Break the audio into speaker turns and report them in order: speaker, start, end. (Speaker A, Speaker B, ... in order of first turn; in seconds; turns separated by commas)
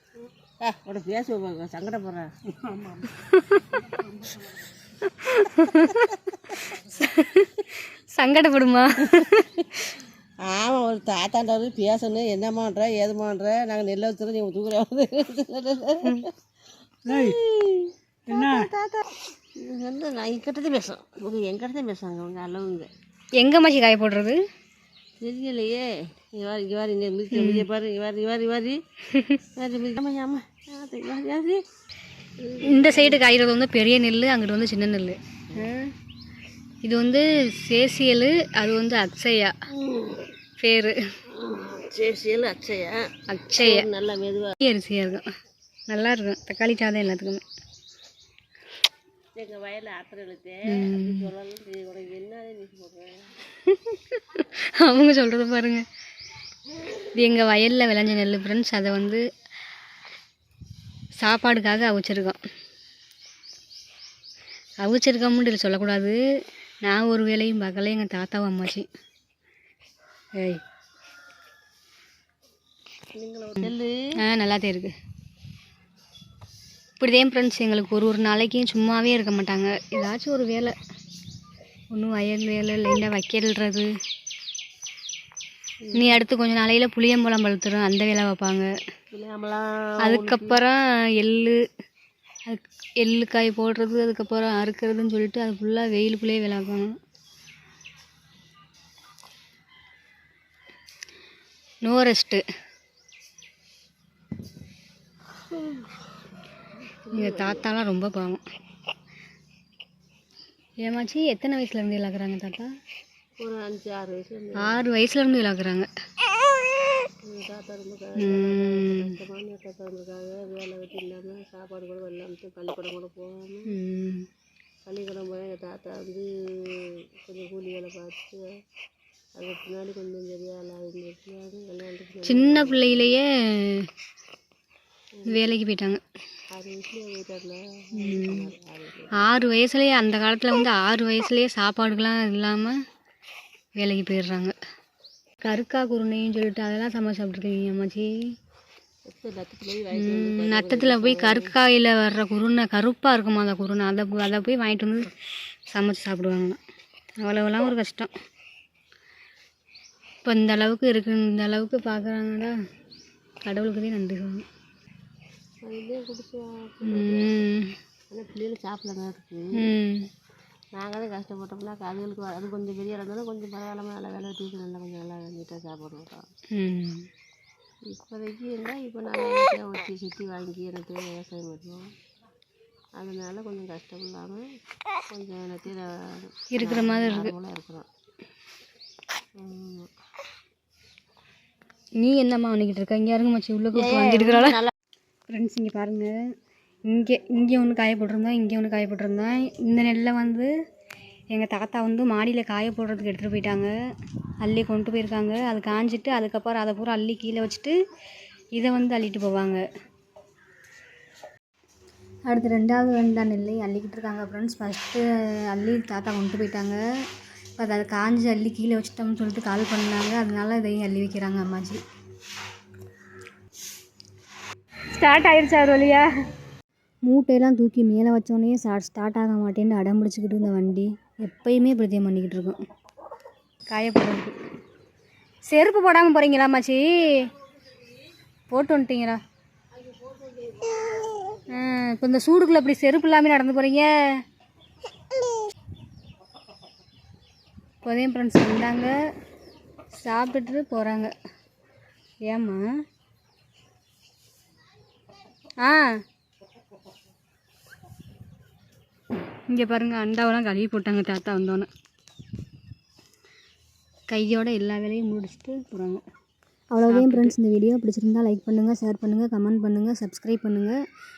Speaker A: 0.6-2.3, Speaker B: 3.0-4.0, Speaker B: 5.0-9.9, Speaker A: 10.4-16.3, Speaker A: 17.0-22.9, Speaker B: 18.3-18.6, Speaker B: 23.4-24.4, Speaker A: 25.2-28.8, Speaker B: 27.3-27.6, Speaker B: 29.1-29.4, Speaker A: 29.6-31.6, Speaker A: 32.4-33.2, Speaker B: 32.6-35.8, Speaker B: 36.8-39.5, Speaker A: 39.7-40.3, Speaker B: 40.6-41.0, Speaker A: 41.3-43.0, Speaker B: 43.3-43.9, Speaker A: 43.6-44.5, Speaker B: 44.6-45.3, Speaker B: 45.9-47.4, Speaker A: 49.3-53.3, Speaker B: 50.7-51.3, Speaker B: 53.7-55.8, Speaker B: 57.1-59.2, Speaker B: 61.2-62.4, Speaker B: 64.8-66.1, Speaker B: 66.8-68.8, Speaker B: 70.3-70.6, Speaker A: 73.1-73.9, Speaker B: 74.2-74.9, Speaker B: 77.0-80.7, Speaker B: 81.9-83.9, Speaker A: 85.8-86.2, Speaker B: 85.9-88.7, Speaker A: 89.1-90.6, Speaker B: 90.0-91.6, Speaker B: 92.5-96.9, Speaker B: 101.8-102.4, Speaker A: 105.5-105.9, Speaker A: 107.0-107.7, Speaker B: 107.1-108.4, Speaker B: 110.8-112.7, Speaker A: 113.4-114.8, Speaker B: 114.6-115.9, Speaker A: 117.2-123.7, Speaker B: 118.2-119.2, Speaker B: 123.7-124.3, Speaker A: 124.8-128.4, Speaker A: 129.3-133.1, Speaker B: 132.2-133.9, Speaker A: 135.2-135.4, Speaker B: 135.3-136.0, Speaker A: 136.5-139.2, Speaker B: 137.9-138.5, Speaker B: 139.2-142.7, Speaker B: 143.8-144.5, Speaker B: 145.4-148.1, Speaker A: 149.1-151.5, Speaker B: 149.9-155.1, Speaker B: 155.7-156.6, Speaker B: 157.2-158.1, Speaker B: 160.2-162.5, Speaker B: 163.4-164.4, Speaker A: 165.6-167.4, Speaker B: 166.8-167.7, Speaker A: 168.1-169.5, Speaker B: 169.6-170.1, Speaker A: 170.7-176.2, Speaker B: 176.5-177.1, Speaker A: 177.9-181.9, Speaker A: 182.9-184.4, Speaker A: 185.1-187.9, Speaker B: 186.5-187.3, Speaker A: 189.4-189.9, Speaker B: 192.0-194.6, Speaker A: 193.7-194.7, Speaker B: 195.3-196.2, Speaker B: 196.9-200.5, Speaker B: 201.3-203.7, Speaker B: 204.4-207.7, Speaker B: 208.5-209.6, Speaker B: 212.3-216.8, Speaker B: 217.6-221.8, Speaker B: 224.9-226.1, Speaker B: 227.1-232.6, Speaker B: 233.7-234.3, Speaker B: 235.4-237.3, Speaker B: 238.5-239.2, Speaker A: 239.7-241.5, Speaker B: 241.5-243.9, Speaker B: 247.8-248.9, Speaker B: 249.9-251.1, Speaker B: 252.3-252.6, Speaker B: 255.6-255.9, Speaker B: 259.3-261.7, Speaker B: 264.1-266.0, Speaker B: 266.7-270.7, Speaker A: 266.9-267.2